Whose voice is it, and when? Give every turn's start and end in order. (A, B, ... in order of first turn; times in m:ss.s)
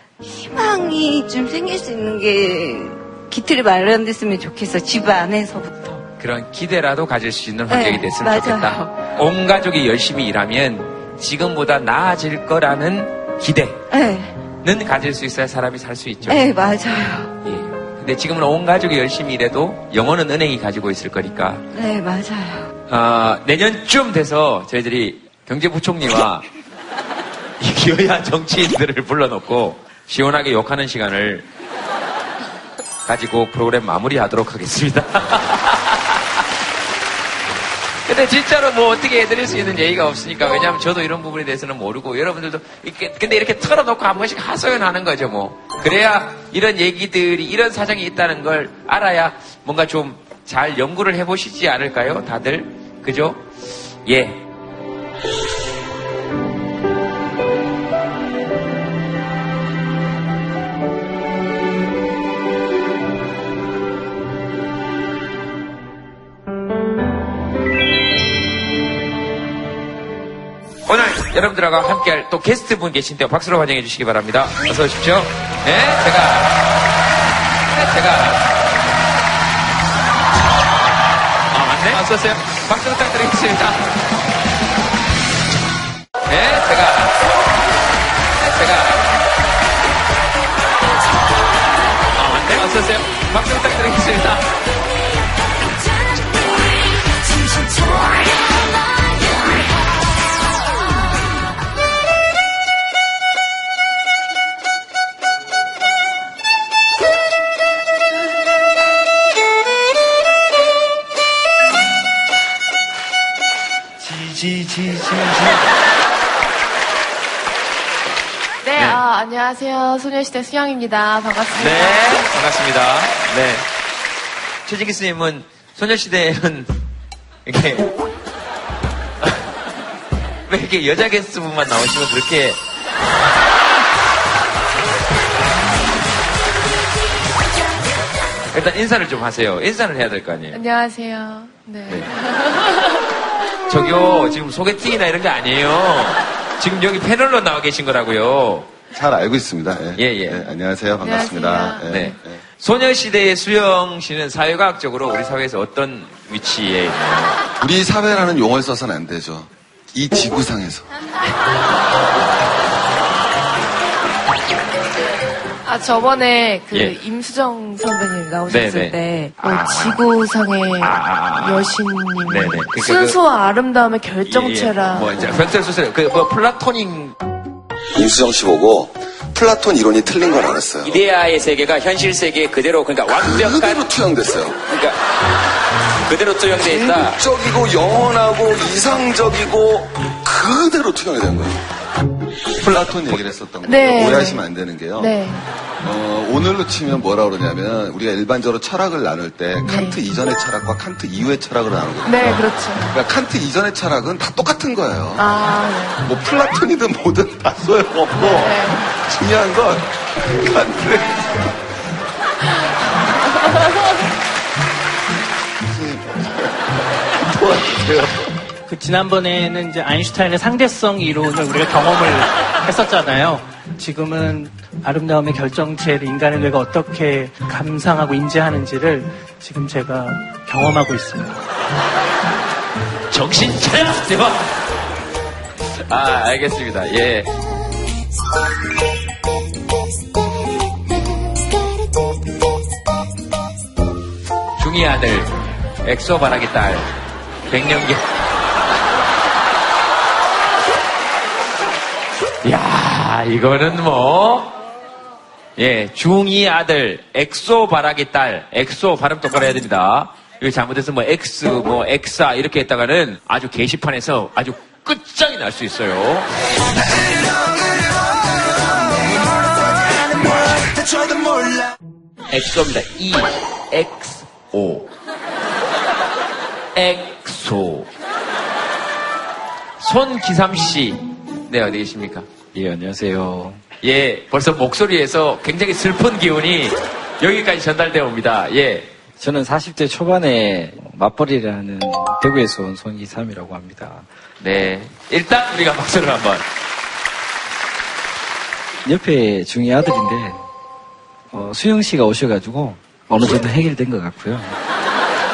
0:00.3-0:06.0 A
0:06.2-0:13.8 B
0:07.7-0:08.8 A
0:13.9-0:14.3 A
0:14.6-0:16.8 B
0:16.3-0:17.3 A
0:17.4-0:21.6 B
0:21.8-0:22.6 A
0:22.9-0:26.5 B
0:27.6-0:31.4 B
0:33.1-0:36.2 B
0:38.1-0:53.4 B
0:54.1-0:54.4 B
1:10.9-1:16.6 B
1:17.7-1:18.4 B
1:21.5-1:24.0 B
1:26.3-1:27.2 B
1:28.4-1:29.0 B
1:32.2-1:34.5 B
1:54.1-1:55.5 B
1:58.6-2:02.3 C
2:01.6-2:03.6 B
2:04.6-2:06.7 B
2:07.5-2:07.9 B
2:10.5-2:12.6 B
2:18.5-2:20.6 B
2:20.5-2:22.8 C
2:23.7-2:28.7 B
2:28.9-2:32.4 D
2:30.0-2:30.4 B
2:31.0-2:32.1 C
2:31.9-2:37.4 B
2:37.6-2:40.9 D
2:45.6-2:55.4 C
2:46.7-2:47.0 B
2:48.5-2:50.0 B
2:50.8-2:51.7 B
2:52.3-2:53.2 B
2:54.2-2:57.2 B
2:57.9-3:01.0 D
3:00.8-3:03.9 B
3:03.1-3:04.6 D
3:04.7-3:05.0 B
3:06.1-3:07.2 B
3:06.6-3:11.6 D
3:12.6-3:15.2 D
3:13.6-3:14.4 C
3:15.0-3:15.4 C
3:15.8-3:25.3 D
3:19.6-3:20.0 C
3:22.0-3:22.9 C
3:25.2-3:26.0 C
3:26.0-3:31.4 D
3:28.1-3:28.8 C
3:35.6-3:36.6 D
3:37.3-3:38.3 B
3:38.7-3:51.4 E
3:53.1-3:54.6 B
3:55.9-3:57.3 B
4:04.6-4:06.9 B
4:07.5-4:08.1 B
4:12.4-4:14.5 B
4:15.6-4:26.3 B
4:32.3-4:34.9 B
4:36.8-4:37.9 B
4:39.8-4:42.3 B
4:42.5-4:43.6 F
4:43.8-4:48.9 B
4:49.2-4:54.1 F
4:54.4-4:56.5 B
4:58.8-5:00.4 F
5:01.3-5:04.6 F